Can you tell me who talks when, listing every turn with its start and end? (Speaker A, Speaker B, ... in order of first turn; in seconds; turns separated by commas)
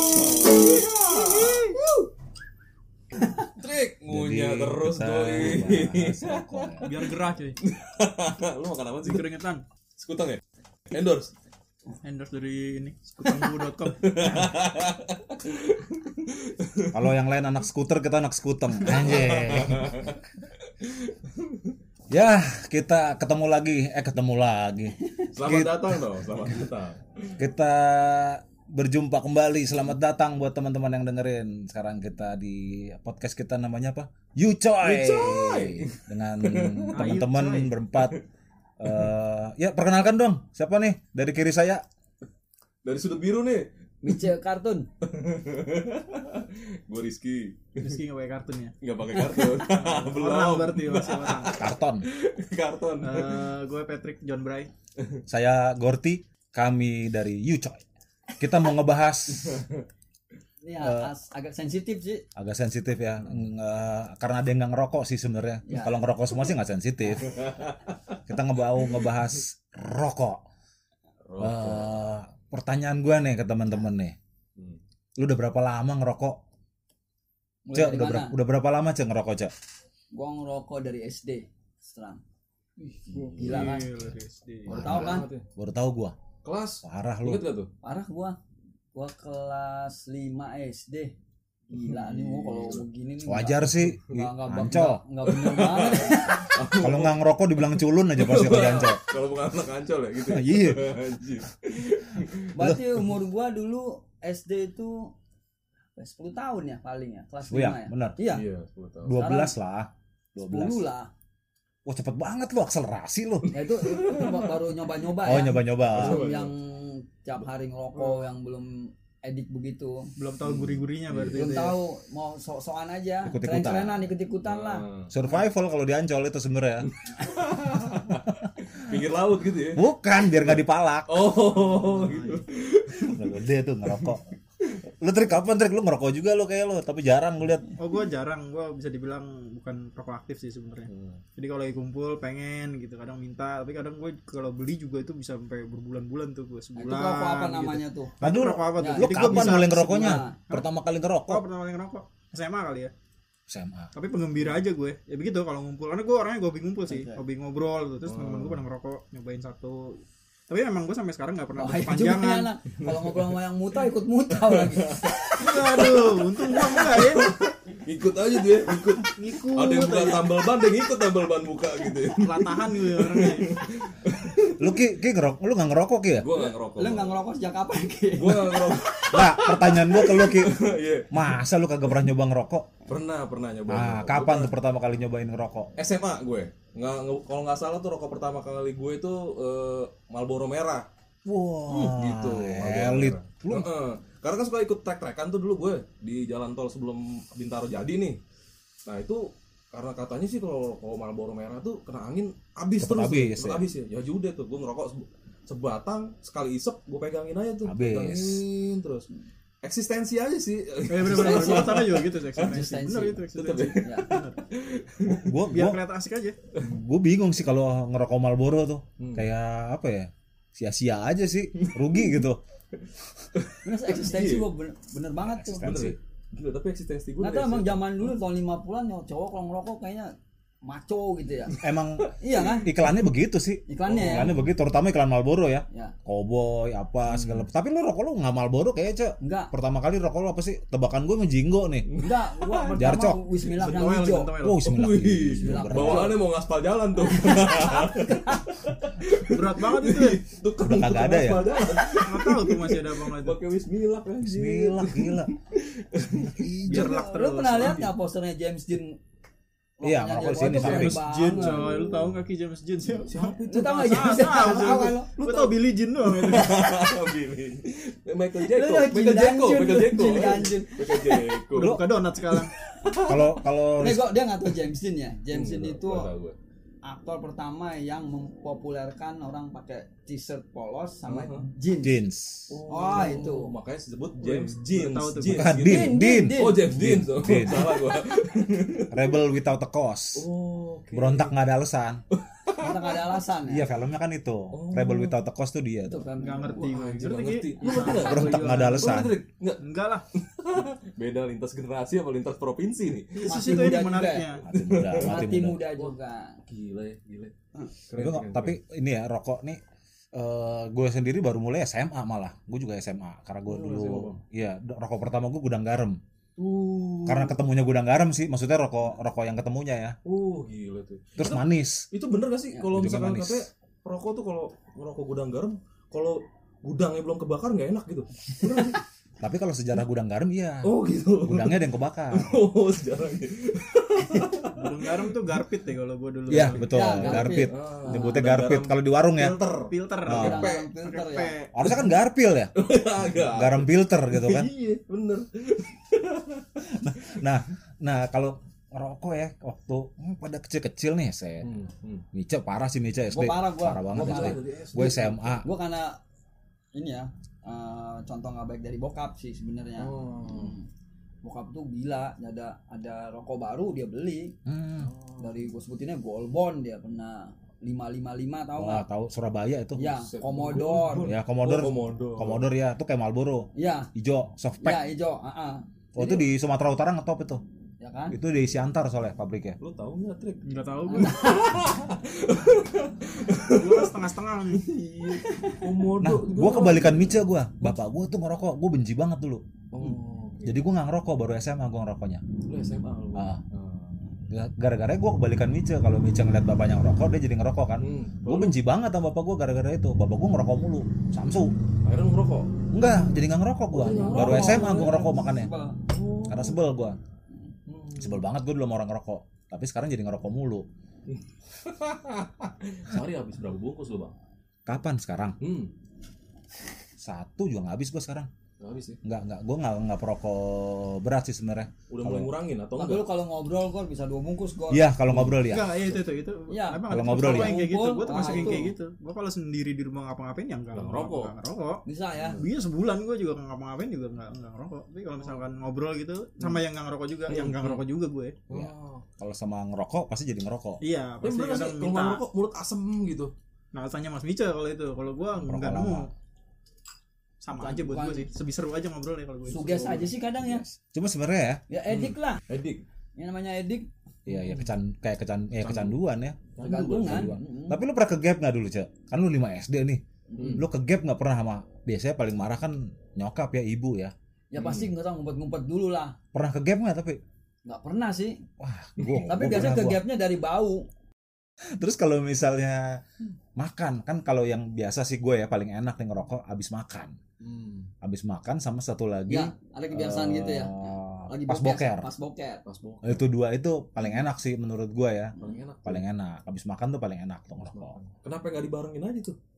Speaker A: 0.4-1.7, Speaker B: 1.1-2.1, Speaker A: 3.4-6.9, Speaker C: 4.1-6.9, Speaker D: 6.8-7.6, Speaker A: 7.6-9.3, Speaker D: 9.0-9.6, Speaker A: 10.0-11.3, Speaker D: 12.0-14.5, Speaker A: 13.2-17.1, Speaker C: 16.9-20.1, Speaker A: 18.9-21.7, Speaker C: 22.1-26.0, Speaker A: 25.3-27.4, Speaker C: 27.4-38.2, Speaker A: 34.8-37.1, Speaker D: 36.9-37.7, Speaker C: 38.8-41.8, Speaker A: 42.8-43.7, Speaker B: 44.0-44.9, Speaker A: 45.0-48.0, Speaker D: 47.8-48.7, Speaker A: 48.8-53.5, Speaker D: 49.5-51.6, Speaker C: 51.6-52.1, Speaker D: 53.0-54.7, Speaker C: 55.3-57.8, Speaker C: 58.4-59.6, Speaker A: 59.4-59.8, Speaker B: 60.6-62.2, Speaker C: 60.8-61.1, Speaker C: 62.3-67.5, Speaker B: 65.7-66.0, Speaker A: 67.2-68.1, Speaker C: 68.2-70.4, Speaker A: 71.2-72.0, Speaker C: 71.4-74.2, Speaker C: 75.2-76.4, Speaker B: 77.7-78.3, Speaker C: 77.7-79.5, Speaker B: 80.1-82.2, Speaker A: 82.8-83.8, Speaker D: 83.1-84.8, Speaker B: 83.4-83.9, Speaker A: 84.7-85.5, Speaker B: 84.7-85.3, Speaker C: 84.7-86.2, Speaker A: 86.4-87.7, Speaker C: 86.8-87.4, Speaker B: 87.8-88.3, Speaker B: 88.9-91.1, Speaker A: 91.7-92.8, Speaker B: 91.7-96.5, Speaker C: 93.2-95.0, Speaker A: 95.2-102.5, Speaker C: 96.7-99.1, Speaker C: 100.3-101.0, Speaker B: 102.5-105.1, Speaker C: 102.6-102.8, Speaker B: 106.0-108.4, Speaker C: 107.5-108.2, Speaker A: 108.3-109.2, Speaker C: 109.0-110.9, Speaker B: 109.1-109.5, Speaker B: 110.4-111.1, Speaker C: 111.8-113.5, Speaker B: 113.5-120.1, Speaker A: 113.7-114.6, Speaker C: 115.2-116.2, Speaker A: 115.9-116.5, Speaker D: 117.9-118.2, Speaker D: 120.2-121.8, Speaker A: 120.4-121.5, Speaker B: 121.3-124.9, Speaker C: 123.2-124.1, Speaker A: 124.4-125.1, Speaker C: 125.1-126.9, Speaker A: 127.0-130.6, Speaker C: 129.7-131.3, Speaker A: 131.1-133.4, Speaker D: 131.4-132.4, Speaker C: 133.0-134.2, Speaker A: 133.9-134.8, Speaker C: 134.9-137.7, Speaker D: 137.8-150.7, Speaker A: 140.9-141.2, Speaker B: 146.8-148.1, Speaker C: 148.2-151.4, Speaker B: 148.8-150.4, Speaker D: 151.3-152.9, Speaker C: 153.5-153.9, Speaker D: 153.9-162.5, Speaker B: 156.9-157.2, Speaker A: 158.0-158.6, Speaker B: 161.6-165.2, Speaker A: 162.8-163.3, Speaker A: 164.4-174.8, Speaker D: 165.3-167.4, Speaker D: 169.2-170.2, Speaker D: 172.2-173.6, Speaker C: 174.6-176.3, Speaker A: 176.2-177.2, Speaker B: 176.4-179.5, Speaker A: 178.1-181.2, Speaker C: 179.1-182.7, Speaker A: 182.9-184.5, Speaker C: 183.7-185.7, Speaker A: 185.8-190.9, Speaker C: 191.2-193.7, Speaker A: 191.7-198.2, Speaker A: 198.8-209.1, Speaker C: 202.8-203.7, Speaker C: 207.6-208.4, Speaker A: 209.6-212.7, Speaker D: 210.9-214.4, Speaker B: 211.1-211.8, Speaker B: 212.4-213.2, Speaker A: 213.3-215.3, Speaker B: 213.8-214.1, Speaker C: 215.0-215.8, Speaker D: 215.4-216.4, Speaker C: 216.6-222.4, Speaker A: 219.0-219.3, Speaker A: 221.6-222.2, Speaker A: 222.8-224.5, Speaker B: 223.6-225.6, Speaker C: 225.2-226.0, Speaker A: 225.6-228.1, Speaker B: 227.2-230.1, Speaker B: 230.6-231.6, Speaker A: 231.5-232.1, Speaker C: 231.6-241.9, Speaker B: 232.2-232.7, Speaker A: 232.7-232.9, Speaker B: 233.7-234.3, Speaker A: 233.8-234.5, Speaker A: 237.1-237.4, Speaker B: 239.2-239.5, Speaker A: 241.9-242.9, Speaker B: 242.0-244.3, Speaker C: 242.7-243.2, Speaker D: 243.4-244.6, Speaker C: 244.4-246.2, Speaker A: 244.6-256.5, Speaker B: 245.4-246.2, Speaker B: 247.2-248.6, Speaker D: 249.2-250.2, Speaker C: 250.6-251.5, Speaker D: 251.8-253.4, Speaker C: 254.2-255.3, Speaker C: 256.3-257.0, Speaker D: 256.6-257.8, Speaker B: 256.7-259.0, Speaker A: 257.5-257.9, Speaker B: 259.8-261.6, Speaker C: 259.8-261.0, Speaker A: 260.5-262.2, Speaker D: 260.6-266.8, Speaker A: 262.9-271.8, Speaker B: 263.5-265.1, Speaker B: 268.4-271.4, Speaker D: 271.5-272.5, Speaker C: 271.6-271.9, Speaker A: 272.8-273.4, Speaker C: 273.0-274.2, Speaker B: 273.8-276.1, Speaker A: 275.3-276.4, Speaker B: 276.8-282.0, Speaker A: 281.1-281.4, Speaker C: 281.8-282.6, Speaker A: 282.5-289.2, Speaker B: 282.7-283.5, Speaker D: 284.2-285.6, Speaker C: 285.3-287.8, Speaker B: 285.6-286.7, Speaker B: 287.5-288.0, Speaker C: 288.9-290.3, Speaker A: 290.1-291.3, Speaker C: 290.9-292.0, Speaker A: 292.1-293.2, Speaker B: 292.5-293.6, Speaker C: 293.5-296.1, Speaker A: 294.5-295.1, Speaker B: 295.9-296.8, Speaker D: 296.2-299.1, Speaker A: 296.5-303.3, Speaker B: 297.6-298.1, Speaker C: 298.0-299.2, Speaker D: 299.6-300.1, Speaker D: 303.2-304.4, Speaker B: 303.2-304.4, Speaker C: 304.4-305.6, Speaker A: 304.5-305.9, Speaker B: 304.9-306.4, Speaker A: 306.4-307.3, Speaker A: 307.8-308.6, Speaker C: 308.0-309.6, Speaker C: 310.1-316.0, Speaker A: 313.4-314.2, Speaker A: 316.4-317.4, Speaker C: 317.1-319.9, Speaker A: 320.0-328.8, Speaker C: 321.2-321.9, Speaker C: 322.6-323.4, Speaker C: 329.2-330.7, Speaker A: 330.6-335.0, Speaker C: 331.2-332.4, Speaker D: 334.5-337.1, Speaker C: 336.3-339.4, Speaker B: 336.6-338.3, Speaker A: 337.1-340.6, Speaker D: 339.2-341.8, Speaker C: 340.0-340.5, Speaker B: 340.1-341.3, Speaker C: 341.5-342.5, Speaker A: 342.5-347.1, Speaker C: 343.1-344.5, Speaker C: 346.7-351.5, Speaker A: 351.4-352.0, Speaker C: 352.1-355.5, Speaker B: 353.1-356.0, Speaker A: 353.9-355.4, Speaker B: 356.7-360.6, Speaker A: 359.8-360.6, Speaker B: 361.2-364.4, Speaker C: 364.4-364.9, Speaker A: 364.8-365.4, Speaker B: 365.2-368.8, Speaker C: 368.6-369.9, Speaker B: 369.8-371.1, Speaker A: 369.9-372.5, Speaker C: 371.0-374.8, Speaker B: 373.5-373.9, Speaker B: 374.6-375.6, Speaker C: 375.9-377.4, Speaker A: 376.0-376.2, Speaker B: 377.8-378.1, Speaker C: 378.1-379.6, Speaker A: 379.6-383.9, Speaker D: 380.4-381.3, Speaker B: 380.8-381.6, Speaker D: 383.5-384.7, Speaker A: 384.5-387.7, Speaker B: 385.0-385.6, Speaker C: 386.0-389.4, Speaker A: 389.7-390.6, Speaker C: 390.4-392.2, Speaker A: 392.4-394.0, Speaker C: 393.1-393.4, Speaker C: 394.3-401.5, Speaker A: 397.8-398.6, Speaker A: 401.8-402.5, Speaker C: 402.7-405.5, Speaker A: 403.7-404.9, Speaker B: 403.8-405.8, Speaker A: 405.9-406.6, Speaker C: 406.3-407.0, Speaker A: 407.7-408.2, Speaker C: 408.0-410.7, Speaker A: 411.1-414.1, Speaker C: 414.6-415.4, Speaker A: 415.4-415.7, Speaker C: 417.0-418.3, Speaker A: 418.6-419.0, Speaker C: 419.0-422.3, Speaker A: 421.9-423.1, Speaker B: 422.8-424.9, Speaker C: 424.7-425.8, Speaker A: 425.1-425.4, Speaker D: 425.4-431.8, Speaker B: 426.5-428.7, Speaker C: 426.9-427.6, Speaker A: 428.1-428.6, Speaker A: 430.7-431.3, Speaker B: 431.8-432.4, Speaker A: 432.1-432.4, Speaker D: 432.4-438.4, Speaker A: 437.3-437.9, Speaker A: 438.5-439.0, Speaker C: 438.5-440.8, Speaker D: 440.8-442.2, Speaker A: 441.2-443.3, Speaker D: 443.7-446.1, Speaker C: 445.4-446.1, Speaker D: 447.4-450.1, Speaker B: 447.5-448.3, Speaker B: 449.5-450.6, Speaker C: 450.4-451.6, Speaker B: 451.7-452.4, Speaker A: 451.9-452.8, Speaker B: 453.1-453.9, Speaker C: 454.2-456.4, Speaker A: 454.3-454.7, Speaker A: 455.6-456.0, Speaker A: 456.5-457.3, Speaker B: 456.6-457.8, Speaker C: 457.0-464.1, Speaker B: 460.3-460.6, Speaker A: 460.4-460.6, Speaker B: 464.5-466.1, Speaker A: 464.6-464.9, Speaker C: 466.3-467.2, Speaker B: 467.6-468.4, Speaker C: 468.6-470.0, Speaker A: 469.0-469.2, Speaker B: 469.2-470.9, Speaker C: 471.8-473.0, Speaker C: 473.6-477.1, Speaker A: 477.4-477.9, Speaker C: 478.0-482.1, Speaker B: 479.3-482.6, Speaker A: 482.6-483.3, Speaker C: 483.0-488.0, Speaker A: 485.4-486.0, Speaker A: 487.6-489.4